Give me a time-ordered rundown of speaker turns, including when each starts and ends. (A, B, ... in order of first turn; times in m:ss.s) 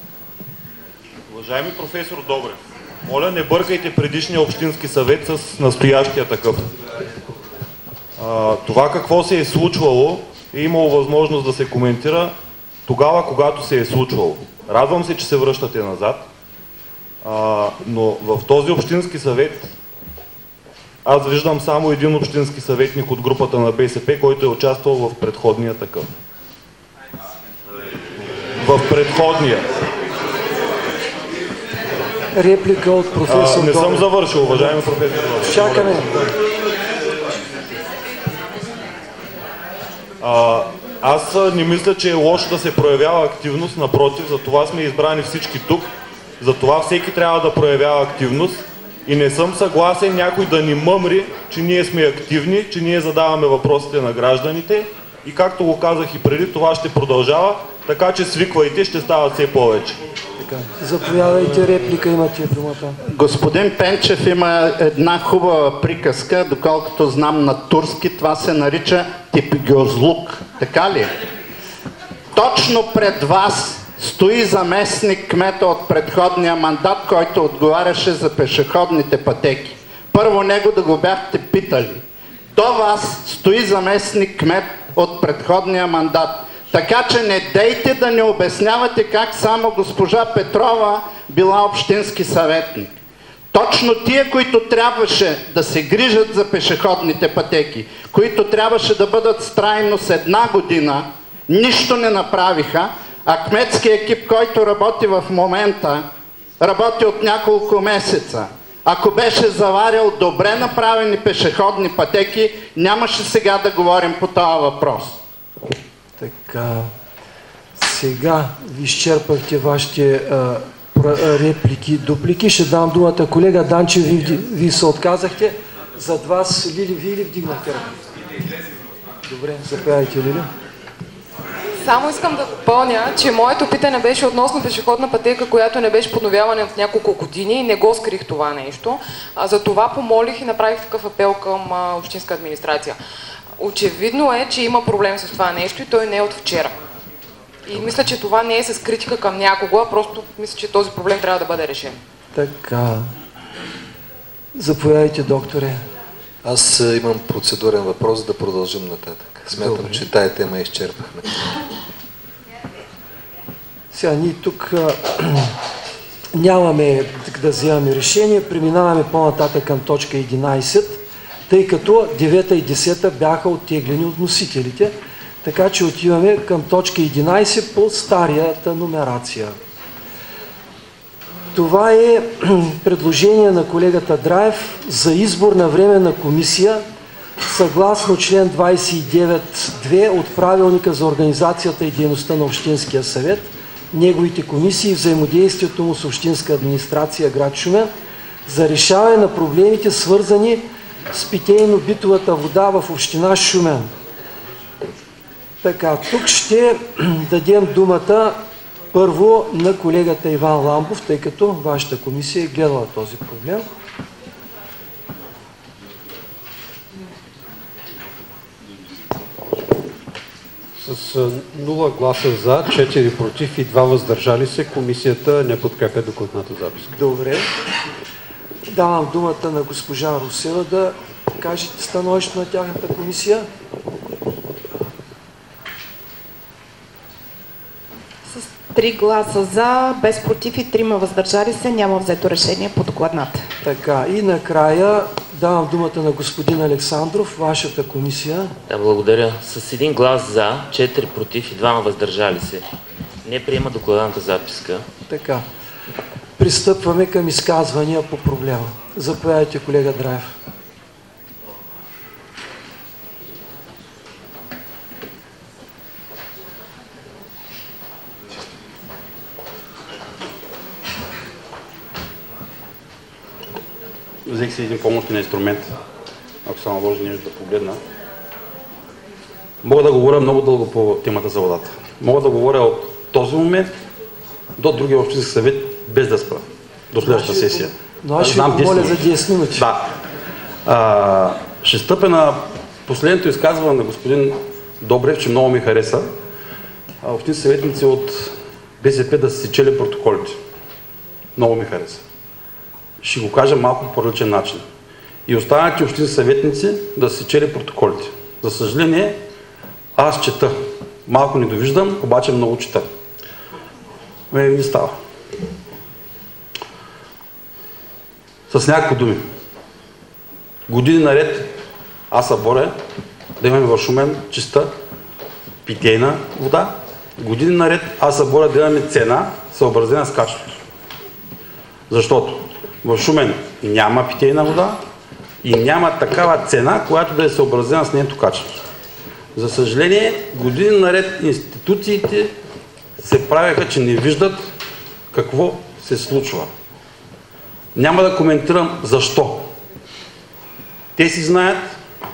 0:01.3-0:06.7 A
0:08.2-0:12.3 A
0:12.9-0:16.2 A
0:17.2-0:19.7 A
0:21.0-0:26.1 A
0:28.6-0:29.7 A
0:32.3-0:36.3 B
0:33.2-0:36.2 A
0:40.2-0:45.9 A
0:46.4-1:00.0 A
1:00.4-1:03.0 B
1:03.1-1:11.1 C
1:12.3-1:22.0 C
1:22.5-1:32.9 C
1:33.5-1:46.0 C
1:46.6-1:55.2 C
1:56.2-1:56.9 B
1:57.8-2:08.0 B
2:09.2-2:10.5 B
2:11.8-2:23.0 D
2:23.6-2:26.7 D
2:27.7-2:32.0 D
2:32.3-2:33.1 B
2:34.6-2:35.8 B
2:36.4-2:41.4 E
2:39.6-2:40.0 B
2:43.9-2:45.5 B
2:46.3-2:59.6 B
3:01.5-3:06.8 B
3:07.5-3:17.9 B
3:18.5-3:23.9 B
3:25.6-3:28.4 B
3:28.9-3:33.7 B
3:40.8-3:47.0 F
3:46.9-3:47.5 B
3:48.7-3:53.5 B
3:58.3-4:03.5 G
4:03.6-4:08.6 B
4:08.7-4:12.6 H
4:13.2-4:14.9 H
4:15.1-4:15.4 B
4:16.4-4:20.4 B
4:34.3-4:35.7 I
4:36.4-4:37.8 I
4:39.6-4:43.7 I
4:44.6-4:50.0 I
4:47.0-4:49.6 B
4:50.7-4:56.1 I
4:57.0-5:00.4 I
5:01.4-5:02.0 I
5:03.0-5:04.6 I
5:05.3-5:09.2 I
5:10.0-5:12.9 I
5:14.3-5:15.0 I
5:18.5-5:19.3 I
5:20.7-5:21.5 I
5:22.1-5:22.8 I
5:23.4-5:24.7 I
5:25.6-5:30.6 I
5:31.9-5:34.8 I
5:35.4-5:38.6 I
5:39.4-5:42.3 I
5:43.0-5:44.5 I
5:45.1-5:46.5 I
5:47.8-5:49.5 I
5:51.0-5:51.8 I